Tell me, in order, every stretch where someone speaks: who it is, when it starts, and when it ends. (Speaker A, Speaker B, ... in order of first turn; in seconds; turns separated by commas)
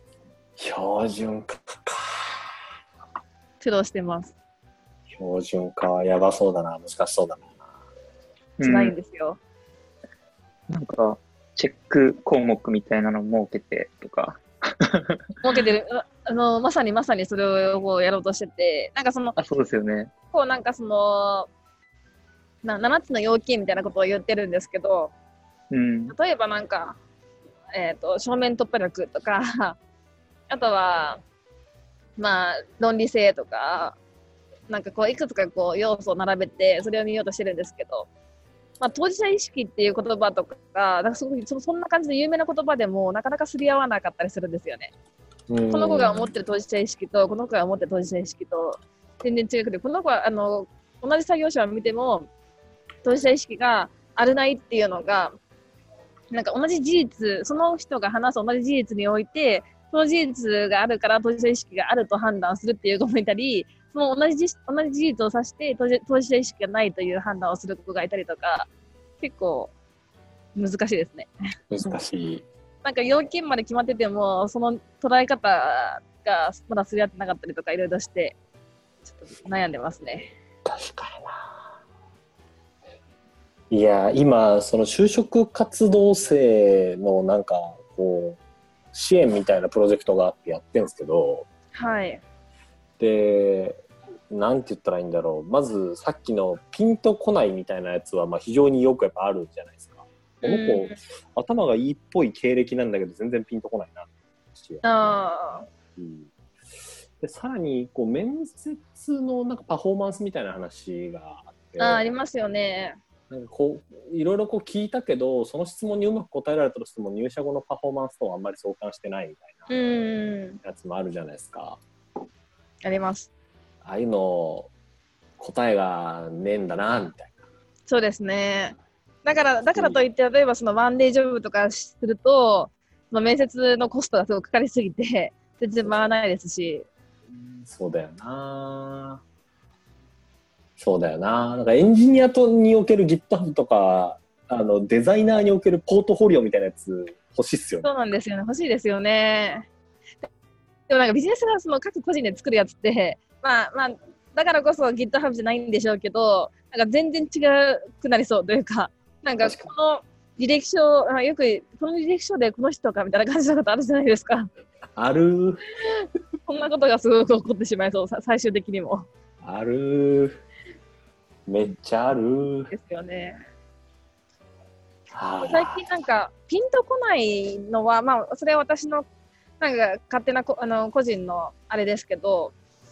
Speaker A: 0.6-2.5, Speaker B: 3.6-4.3, Speaker A: 5.1-7.5, Speaker C: 8.6-8.9, Speaker B: 8.6-9.4, Speaker C: 10.7-15.2, Speaker B: 15.4-19.4, Speaker C: 19.4-20.1, Speaker B: 20.3-21.5, Speaker B: 22.6-25.1, Speaker C: 25.7-26.1, Speaker B: 26.1-27.0, Speaker B: 27.7-29.8, Speaker B: 30.5-31.2, Speaker B: 32.2-34.0, Speaker B: 34.7-38.1, Speaker B: 38.8-44.9, Speaker A: 45.5-46.3, Speaker B: 45.7-52.3, Speaker B: 53.0-55.3, Speaker B: 56.3-68.7, Speaker B: 69.2-69.7, Speaker B: 70.5-71.3, Speaker A: 71.7-72.5, Speaker B: 72.8-78.4, Speaker B: 79.0-80.3, Speaker A: 80.6-81.4, Speaker A: 83.7-88.4, Speaker A: 88.9-91.5, Speaker B: 91.7-92.2, Speaker A: 93.0-106.3, Speaker B: 100.4-101.0, Speaker B: 104.8-105.7, Speaker A: 107.2-112.0, Speaker B: 111.8-113.0, Speaker A: 113.3-119.7, Speaker B: 119.7-120.6, Speaker A: 120.6-121.8, Speaker B: 122.8-123.3, Speaker A: 123.8-124.7, Speaker A: 125.4-127.3, Speaker B: 127.9-136.9, Speaker A: 129.7-130.0, Speaker A: 137.3-139.2, Speaker A: 140.8-147.9, Speaker B: 147.8-149.7, Speaker B: 150.9-164.5, Speaker A: 159.4-159.7, Speaker A: 164.9-165.6, Speaker B: 166.5-169.1, Speaker A: 169.4-170.4, Speaker A: 171.5-172.7, Speaker B: 172.7-173.4, Speaker A: 175.1-175.9, Speaker B: 175.4-179.1, Speaker B: 179.6-182.5